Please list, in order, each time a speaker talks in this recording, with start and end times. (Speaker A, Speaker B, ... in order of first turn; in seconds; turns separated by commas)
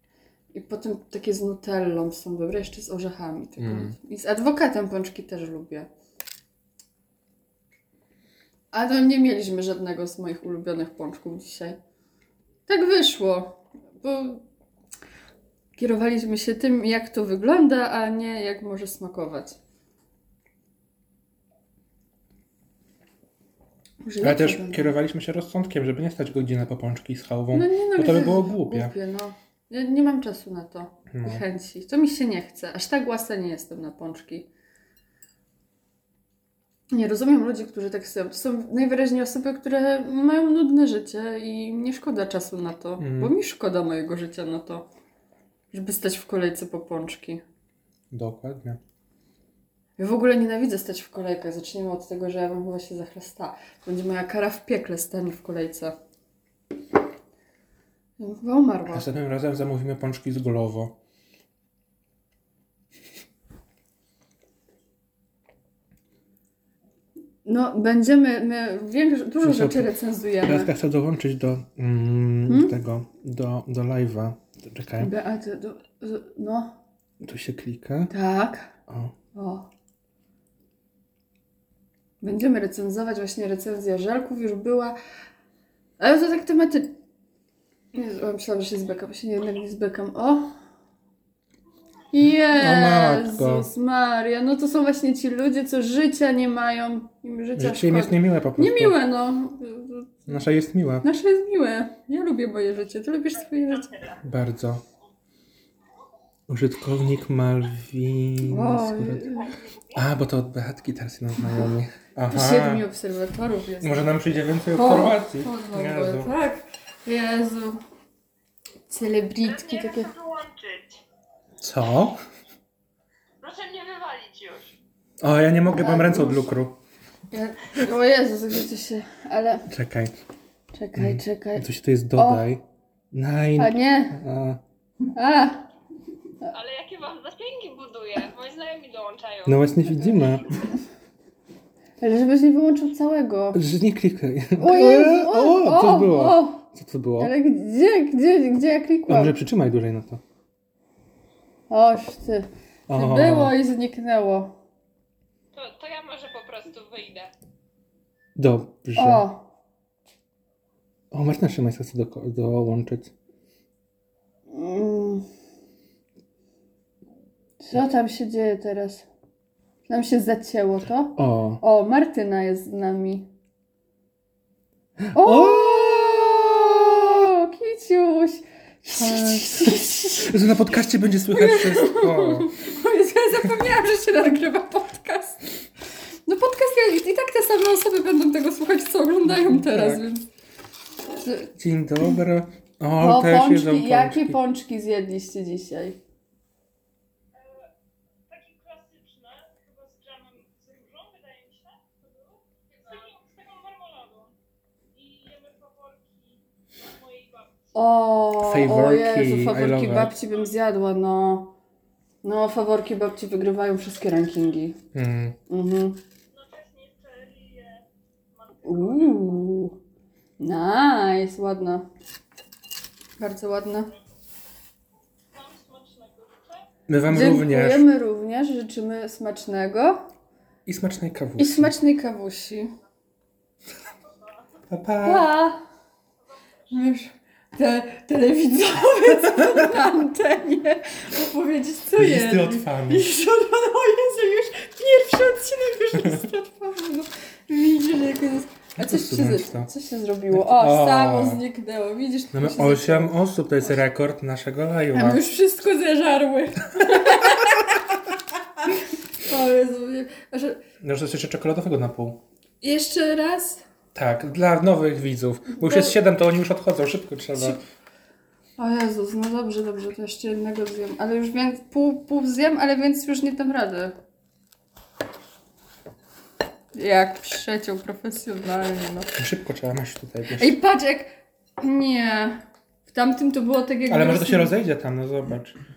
Speaker A: 0.5-5.9, Speaker B: 3.6-4.0, Speaker A: 8.7-11.8, Speaker A: 12.7-14.4, Speaker A: 15.8-19.6, Speaker A: 24.0-24.9, Speaker B: 24.2-28.9, Speaker A: 27.5-34.5, Speaker B: 31.1-31.4, Speaker A: 36.9-44.9, Speaker B: 43.0-43.3, Speaker A: 45.7-47.4, Speaker B: 48.1-48.8, Speaker A: 50.0-56.0, Speaker A: 58.2-59.1, Speaker B: 58.9-61.0, Speaker A: 67.5-70.7, Speaker B: 69.4-69.9, Speaker B: 70.4-75.1, Speaker A: 72.5-72.8, Speaker A: 75.0-76.8, Speaker B: 77.2-78.1, Speaker A: 78.1-78.7, Speaker B: 78.9-79.1, Speaker A: 79.3-79.7, Speaker A: 82.2-85.0, Speaker A: 86.0-87.0, Speaker A: 87.9-90.5, Speaker A: 92.1-100.4, Speaker B: 92.5-93.7, Speaker B: 97.6-99.0, Speaker B: 100.3-101.1, Speaker A: 101.0-104.1, Speaker B: 104.2-104.8, Speaker B: 106.5-109.3, Speaker A: 108.4-109.5, Speaker C: 109.5-110.0, Speaker B: 109.9-112.8, Speaker A: 112.3-114.2, Speaker B: 113.8-116.3, Speaker A: 114.7-117.8, Speaker A: 118.9-120.1, Speaker C: 119.4-121.0, Speaker B: 121.6-122.2, Speaker C: 123.4-124.8, Speaker B: 125.2-126.8, Speaker A: 125.7-126.5, Speaker A: 127.3-129.7, Speaker B: 129.7-130.2, Speaker A: 130.7-132.4, Speaker B: 130.9-134.6, Speaker A: 133.6-134.2, Speaker A: 135.1-135.7, Speaker C: 136.5-140.6, Speaker B: 139.5-140.5, Speaker A: 142.0-143.6, Speaker B: 143.5-147.3, Speaker A: 144.6-146.6, Speaker A: 147.2-149.3, Speaker B: 149.1-150.2, Speaker A: 151.7-154.6, Speaker B: 152.9-153.6, Speaker C: 155.5-157.3, Speaker B: 158.4-159.3, Speaker A: 159.0-159.4, Speaker B: 161.1-163.1, Speaker A: 164.5-165.3, Speaker A: 167.6-169.1, Speaker A: 169.9-173.3, Speaker B: 171.2-171.6, Speaker B: 175.0-176.4, Speaker A: 175.1-180.4, Speaker B: 179.0-182.5, Speaker A: 181.3-185.6, Speaker A: 186.3-190.3, Speaker B: 189.2-190.1, Speaker A: 191.1-191.5, Speaker B: 191.6-194.4, Speaker A: 193.0-196.0, Speaker C: 197.3-197.7, Speaker C: 198.3-204.4, Speaker C: 204.9-207.7, Speaker A: 207.7-211.6, Speaker B: 208.4-210.1, Speaker A: 212.2-214.8, Speaker B: 214.9-215.4, Speaker A: 215.5-216.0, Speaker C: 216.3-219.5, Speaker A: 218.7-219.8, Speaker A: 220.4-221.9, Speaker A: 223.2-223.9, Speaker C: 225.3-226.7, Speaker B: 226.9-227.9, Speaker A: 227.1-230.0, Speaker B: 230.7-231.7, Speaker A: 231.4-232.7, Speaker C: 234.0-234.5, Speaker B: 234.7-235.3, Speaker A: 235.0-235.6, Speaker C: 236.4-236.7, Speaker A: 236.7-253.2, Speaker B: 242.0-243.1, Speaker B: 248.8-249.7, Speaker B: 250.3-251.4, Speaker B: 252.3-255.2, Speaker A: 254.9-257.9, Speaker A: 258.6-260.6, Speaker B: 260.8-262.2, Speaker A: 262.6-263.6, Speaker B: 263.9-267.6, Speaker A: 265.6-266.0, Speaker A: 268.6-274.0, Speaker A: 276.7-279.1, Speaker B: 279.2-280.6, Speaker A: 280.4-284.5, Speaker B: 283.9-285.6